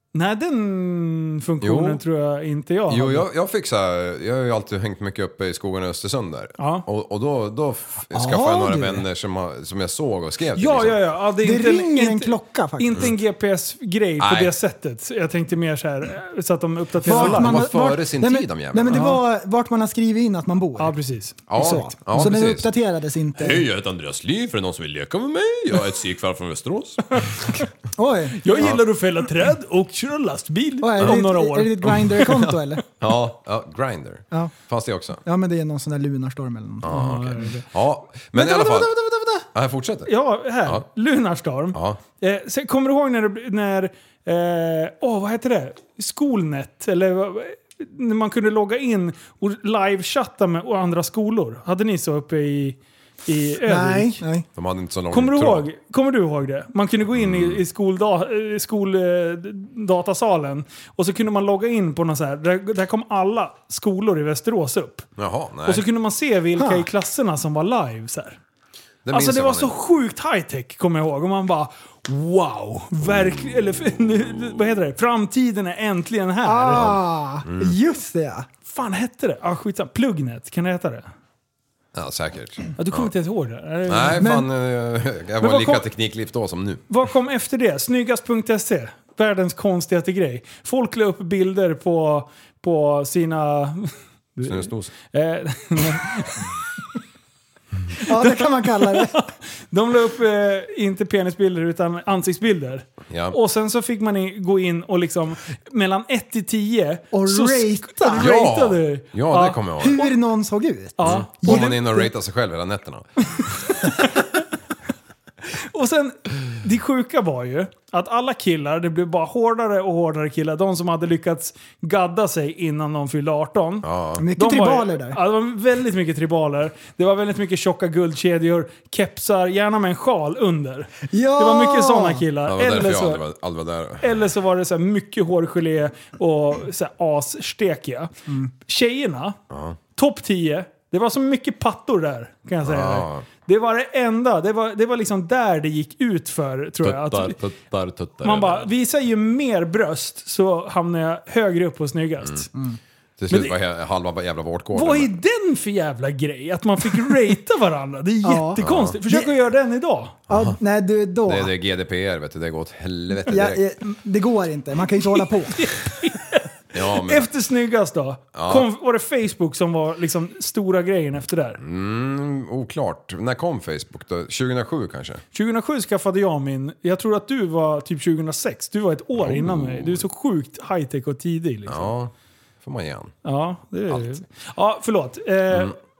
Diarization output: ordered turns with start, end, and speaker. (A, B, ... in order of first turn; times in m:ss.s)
0:00.1-0:03.2 A
0:01.6-0:02.0 B
0:02.9-0:11.0 B
0:06.6-0:06.8 A
0:08.1-0:09.0 C
0:10.6-0:17.6 A
0:11.4-0:13.1 C
0:14.2-0:14.5 B
0:17.0-0:20.9 C
0:17.0-0:19.1 B
0:18.9-0:19.2 A
0:20.8-0:21.4 A
0:21.5-0:22.7 B
0:21.5-0:23.7 C
0:23.4-0:27.6 B
0:28.0-0:28.7 C
0:28.4-0:32.0 A
0:30.8-0:32.8 C
0:31.9-0:35.2 B
0:35.2-0:37.2 C
0:36.8-0:38.9 B
0:36.8-0:37.6 A
0:38.4-0:39.4 A
0:39.5-0:40.1 B
0:40.0-0:54.2 A
0:41.7-0:42.0 B
0:53.6-0:54.4 C
0:54.5-0:55.6 B
0:55.1-1:05.0 A
0:57.1-0:57.6 B
1:05.2-1:05.8 B
1:05.6-1:08.4 A
1:06.6-1:06.8 C
1:09.0-1:09.7 B
1:09.1-1:16.8 A
1:16.4-1:18.5 C
1:16.7-1:17.8 B
1:18.6-1:21.0 A
1:21.9-1:23.1 B
1:22.8-1:24.3 A
1:23.9-1:26.8 B
1:24.2-1:24.5 C
1:25.4-1:25.8 A
1:26.9-1:36.5 A
1:34.4-1:34.9 B
1:38.0-1:39.1 C
1:38.0-1:50.1 A
1:43.1-1:43.4 B
1:47.1-1:48.3 C
1:48.2-1:50.0 B
1:49.8-1:52.1 C
1:51.0-1:51.7 A
1:51.0-1:53.8 B
1:55.7-2:13.2 A
2:03.8-2:04.2 B
2:04.2-2:05.2 C
2:11.1-2:12.2 C
2:12.4-2:14.2 B
2:14.0-2:19.4 A
2:19.5-2:19.8 B
2:20.0-2:27.4 A
2:22.6-2:23.2 B
2:26.8-2:28.7 B
2:28.2-2:32.5 A
2:33.2-2:35.1 B
2:33.3-2:33.5 A
2:34.7-2:40.2 A
2:38.2-2:39.3 C
2:38.6-2:39.0 B
2:40.3-2:41.5 C
2:40.3-2:40.6 B
2:41.2-2:43.6 B
2:43.2-2:45.6 C
2:45.2-2:51.6 A
2:46.7-2:47.3 B
2:48.3-2:48.7 B
2:51.6-2:55.2 B
2:55.3-3:01.9 A
2:59.2-3:00.0 B
3:01.7-3:02.1 B
3:02.6-3:03.1 B
3:03.2-3:05.8 A